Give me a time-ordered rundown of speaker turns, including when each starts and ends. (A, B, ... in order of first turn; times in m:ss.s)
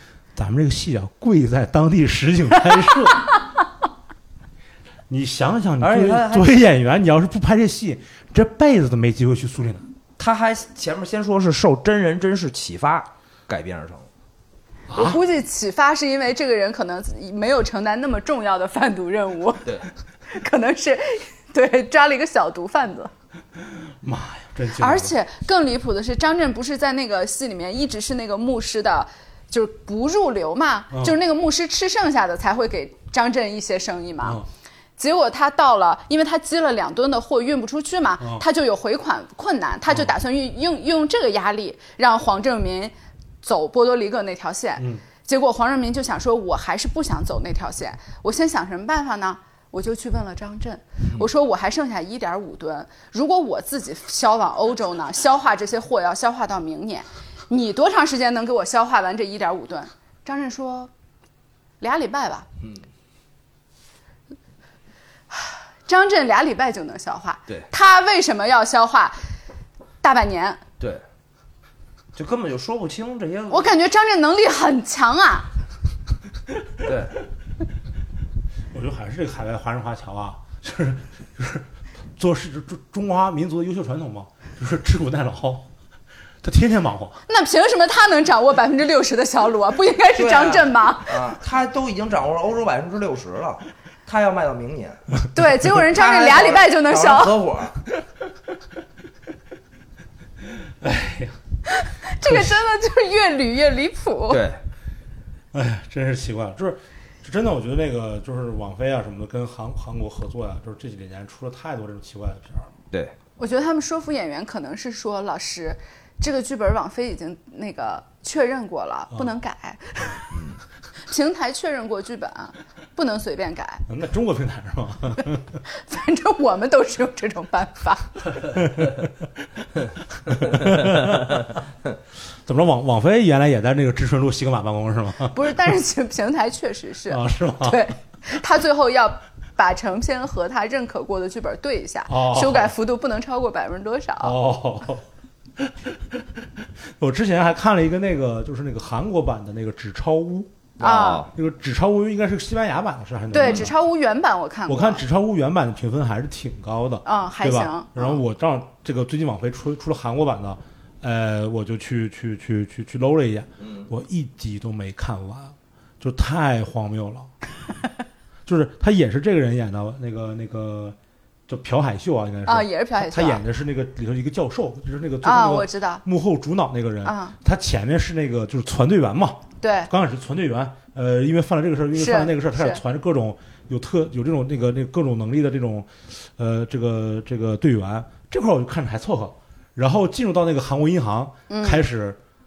0:00.3-0:03.3 A
0:05.1-0:09.9 A
0:05.8-0:06.6 B
0:10.2-0:14.1 B
0:14.9-0:15.2 A
0:14.9-0:19.7 C
0:20.3-0:23.1 C
0:23.6-0:25.1 A
0:24.8-0:34.4 C
0:35.0-1:00.9 C
0:38.2-0:38.4 A
0:44.8-0:45.0 A
1:01.8-1:02.5 C
1:05.3-1:09.2 C
1:10.0-1:10.6 C
1:12.2-1:13.7 B
1:13.5-1:15.5 C
1:16.8-1:17.1 B
1:18.7-1:25.7 A
1:26.4-1:27.2 A
1:27.3-1:31.4 C
1:30.1-1:35.2 B
1:35.3-1:37.4 C
1:35.7-1:37.8 B
1:40.5-1:41.4 A
1:41.7-1:44.4 C
1:42.2-1:42.6 A
1:44.3-1:44.6 B
1:45.5-1:52.7 A
1:53.4-2:00.3 C
2:00.3-2:00.6 B
2:01.1-2:03.8 C
2:03.9-2:05.6 A
2:05.7-2:08.2 C
2:08.5-2:09.1 A
2:10.3-2:11.4 A
2:12.4-2:15.7 A
2:15.3-2:24.4 C
2:17.1-2:17.8 A
2:22.1-2:22.7 A
2:24.2-2:25.0 A
2:25.6-2:30.5 A
2:30.8-2:31.3 B
2:30.8-2:31.2 C
2:31.3-2:33.7 A
2:33.3-2:35.0 C
2:34.7-2:47.3 A
2:37.0-2:38.2 C
2:43.6-2:43.9 B
2:48.4-2:51.0 A
2:51.5-3:12.2 A
2:52.4-2:53.4 C
2:55.2-2:56.0 C
2:57.0-2:57.4 C
2:59.6-2:59.9 C
3:01.9-3:02.8 C
3:11.5-3:11.8 C